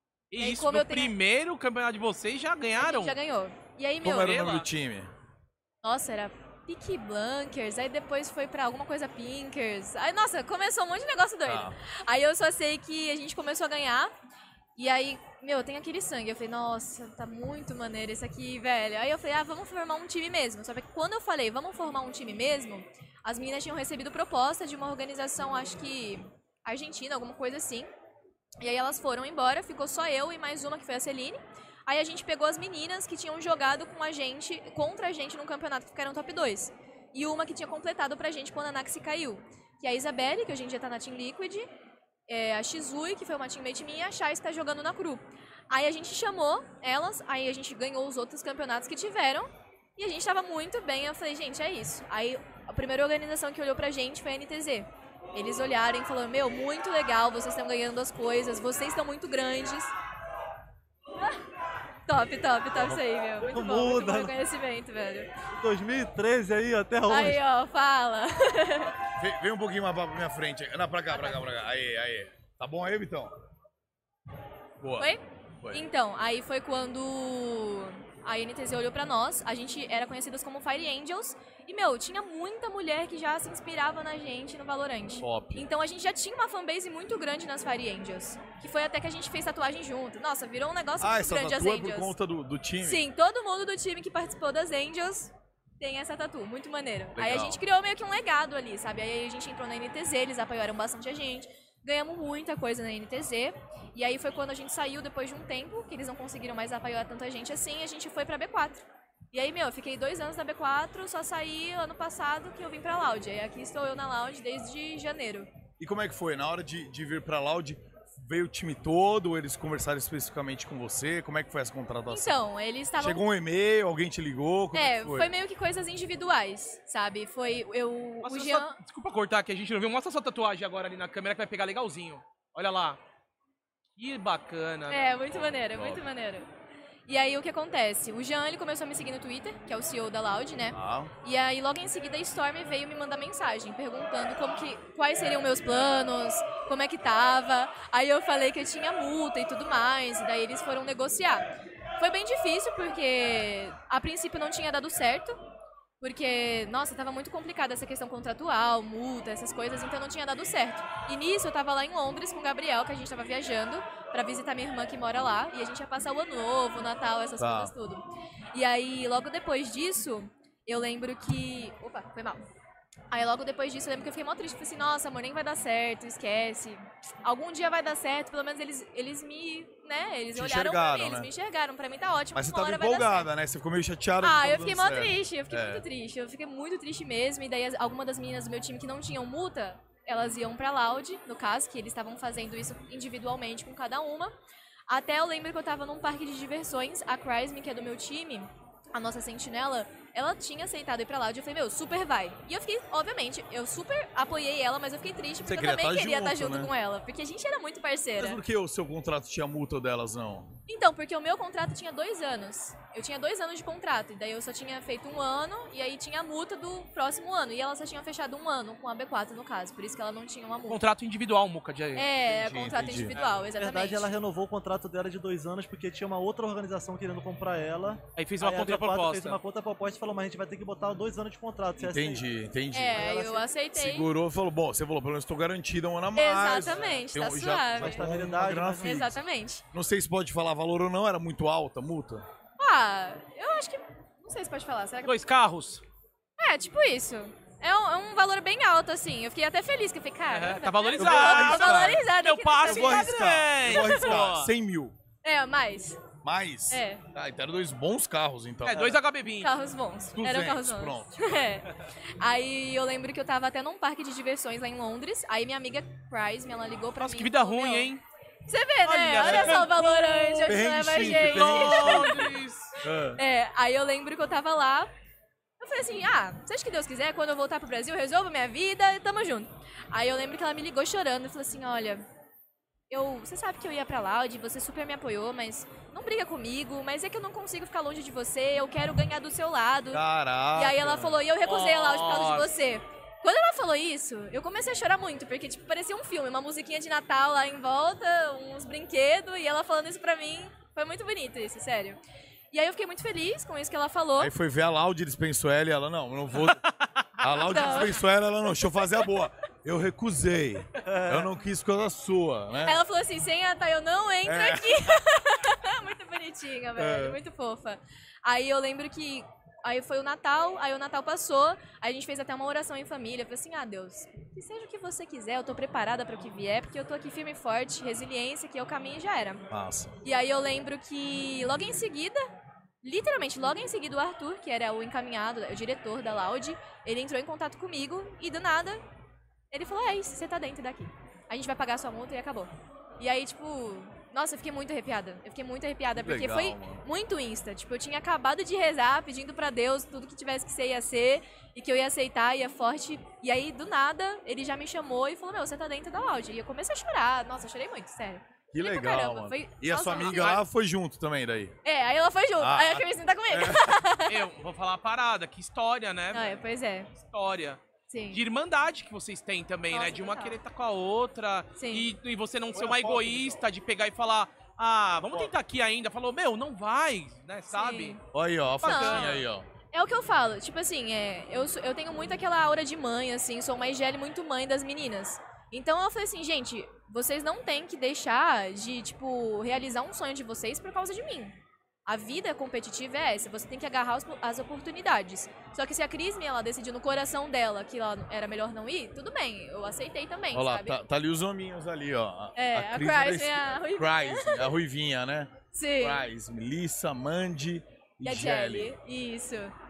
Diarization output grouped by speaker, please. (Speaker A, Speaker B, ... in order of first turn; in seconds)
Speaker A: 0.3-3.1, 4.2-4.7, 128.2-133.0, 134.0-135.2, 220.7-222.1, 223.1-223.4, 228.2-229.4, 245.0-245.8, 250.3-254.5, 258.6-259.5, 267.0-268.0, 268.8-272.7, 291.4-292.5, 306.5-307.1, 359.9-360.4, 364.1-366.4, 366.9-367.6, 368.1-378.0, 378.6-379.2
Speaker B: 0.4-1.1, 2.8-4.4, 5.8-14.1, 14.8-27.9, 28.6-41.7, 42.3-59.9, 62.1-65.3, 67.1-68.9, 71.1-71.4, 75.0-92.1, 92.8-115.5, 122.1-123.2, 124.7-128.8, 134.9-136.5, 137.1-151.5, 152.0-155.3, 156.0-172.4, 173.1-183.3, 184.2-194.3, 194.9-208.4, 210.7-220.8, 221.9-224.1, 232.7-234.1, 236.2-238.0, 238.8-239.6, 242.6-245.2, 246.4-254.1, 255.2-256.0, 256.7-257.0, 259.4-267.9, 268.5-272.3, 273.1-274.9, 275.6-282.0, 282.9-290.0, 290.5-302.0, 302.5-304.3, 307.3-308.0, 312.6-329.4, 330.0-332.2, 332.8-338.8, 339.5-360.4, 361.6-364.1, 366.1-366.9, 367.9-368.2, 369.7-370.4, 371.6-371.9, 377.5-378.0, 378.6-400.8, 402.4-404.5, 405.5-406.0, 408.0-409.5
Speaker C: 4.0-5.1, 11.4-11.8, 62.8-63.0, 68.8-73.3, 74.8-75.8, 85.2-85.7, 91.0-93.0, 97.1-97.6, 115.8-122.4, 123.0-125.3, 135.3-136.0, 140.7-141.1, 167.4-167.7, 180.3-181.3, 182.3-185.8, 205.4-206.7, 208.2-210.6, 222.2-223.2, 231.8-239.2, 239.7-242.2, 251.0-252.0, 252.6-254.9, 256.2-259.0, 260.1-261.4, 269.2-269.6, 270.4-272.2, 272.8-273.2, 289.9-291.2, 304.2-306.6, 307.2-312.8, 314.2-315.0, 316.8-317.2, 329.5-330.0, 345.9-346.8, 358.5-361.6, 362.4-363.8, 372.5-373.4, 378.1-379.5, 400.3-408.7
Speaker D: 63.4-64.3, 65.6-67.4, 223.6-232.2, 232.9-233.4, 237.8-239.0, 310.8-311.3